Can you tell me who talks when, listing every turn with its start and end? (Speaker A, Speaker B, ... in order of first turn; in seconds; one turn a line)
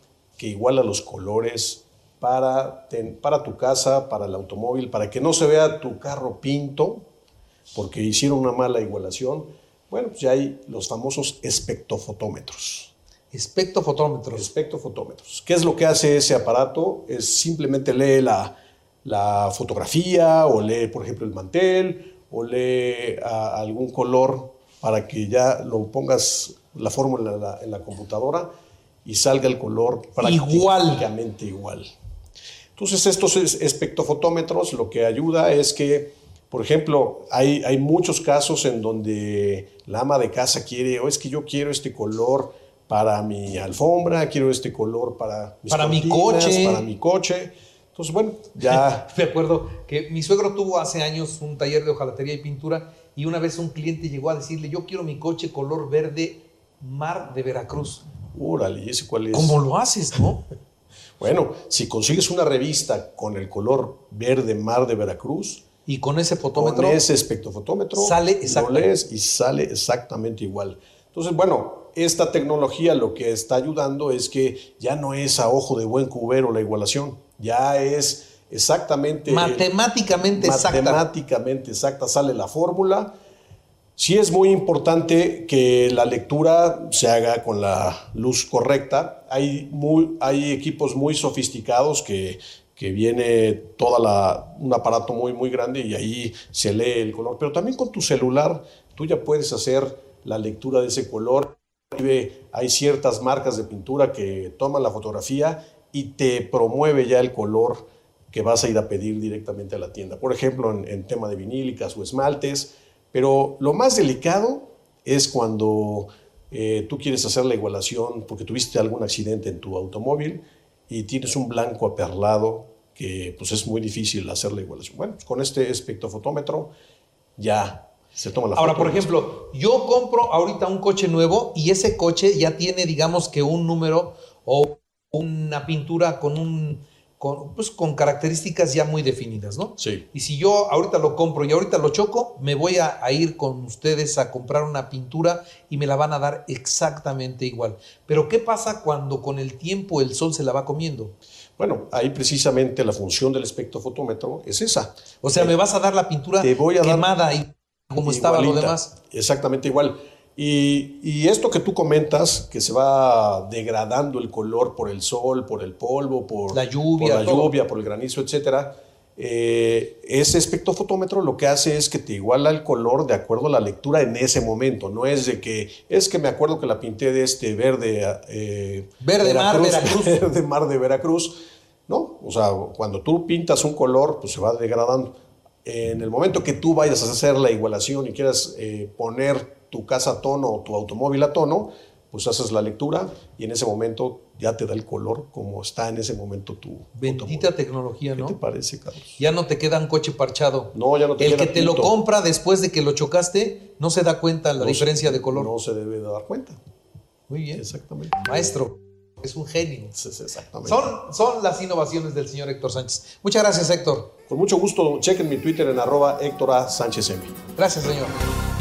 Speaker A: 0.4-7.1
Speaker A: 7.7-12.9
Speaker B: 13.3-14.5
Speaker A: 14.3-28.5
Speaker A: 29.1-31.9
Speaker B: 30.2-31.1
Speaker A: 32.8-49.1
Speaker B: 45.7-46.8
Speaker B: 48.7-58.0
Speaker A: 58.3-59.6
Speaker B: 59.3-60.5
Speaker A: 61.2-65.6
Speaker B: 65.9-67.0
Speaker A: 66.5-79.7
Speaker B: 68.0-68.9
Speaker B: 79.3-81.0
Speaker A: 80.3-83.1
Speaker A: 84.0-126.7
Speaker A: 127.4-129.1
Speaker B: 128.6-151.1
Speaker A: 139.8-140.0
Speaker A: 151.6-155.6
Speaker B: 155.2-158.9
Speaker A: 156.4-157.1
Speaker A: 158.0-185.1
Speaker B: 166.5-167.5
Speaker B: 179.0-180.2
Speaker A: 185.7-197.5
Speaker B: 196.9-198.4
Speaker A: 198.2-199.2
Speaker B: 199.2-205.5
Speaker A: 200.7-201.9
Speaker A: 204.6-206.6
Speaker B: 207.3-207.6
Speaker A: 207.6-208.5
Speaker B: 208.2-209.9
Speaker A: 209.9-210.9
Speaker B: 210.7-214.1
Speaker A: 214.3-217.4
Speaker B: 217.6-218.2